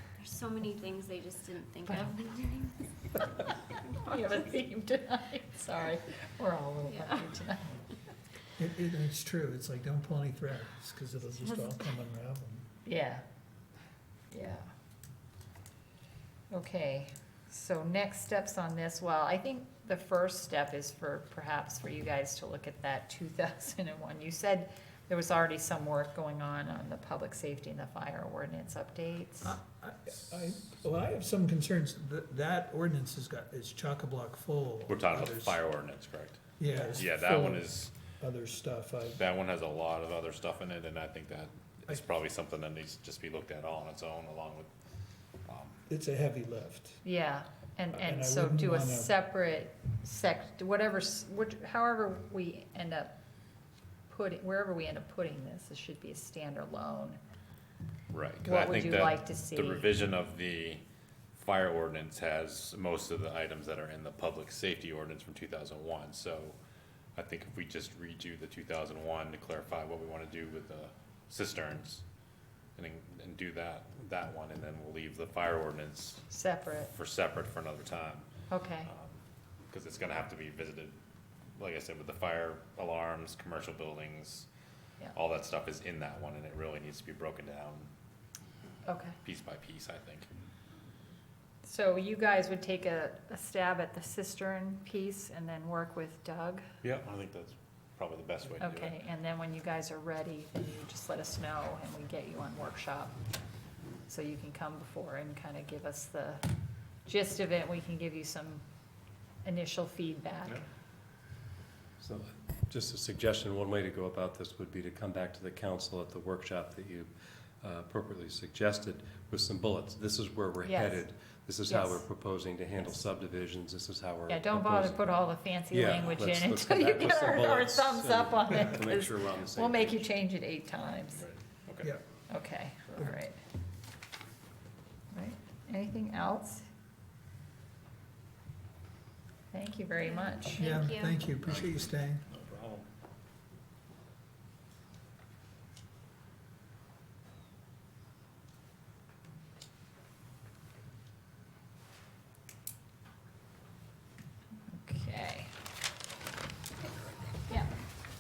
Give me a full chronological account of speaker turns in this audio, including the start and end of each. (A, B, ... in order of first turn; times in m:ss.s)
0:00.2-0:02.9 A
0:01.9-0:02.1 B
0:03.8-0:04.1 A
0:04.0-0:07.8 B
0:06.8-0:07.4 A
0:08.6-0:12.7 C
0:12.8-0:13.2 B
0:14.3-0:14.7 B
0:16.5-0:29.6 B
0:29.4-0:35.6 C
0:34.9-0:38.0 D
0:36.6-0:39.2 C
0:36.7-0:37.0 B
0:39.2-0:44.7 D
0:45.4-0:45.8 D
0:45.9-0:47.0 C
0:47.0-0:53.2 B
0:47.9-0:49.2 C
0:54.1-0:57.2 B
0:58.1-1:00.8 D
0:58.4-0:59.9 B
1:01.4-1:06.6 D
1:07.2-1:12.0 D
1:12.8-1:16.3 D
1:16.3-1:16.9 B
1:16.9-1:18.3 D
1:18.5-1:18.9 B
1:18.8-1:21.0 D
1:21.6-1:24.5 D
1:25.1-1:27.9 D
1:28.9-1:29.2 B
1:29.2-1:30.3 D
1:31.6-1:36.6 B
1:36.8-1:39.0 D
1:38.6-1:43.2 B
1:44.1-1:46.4 B
1:47.1-1:48.6 B
1:49.4-1:50.6 B
1:52.0-2:05.0 E
2:00.7-2:01.1 B
2:01.7-2:02.1 B
2:04.3-2:11.2 B
2:05.7-2:10.1 E
2:11.2-2:11.9 D
2:12.3-2:13.4 B
2:15.1-2:16.7 B
2:19.5-2:20.7 B
2:20.0-2:21.3 A
2:20.6-2:22.2 C
2:21.4-2:22.9 D
2:34.6-2:35.5 B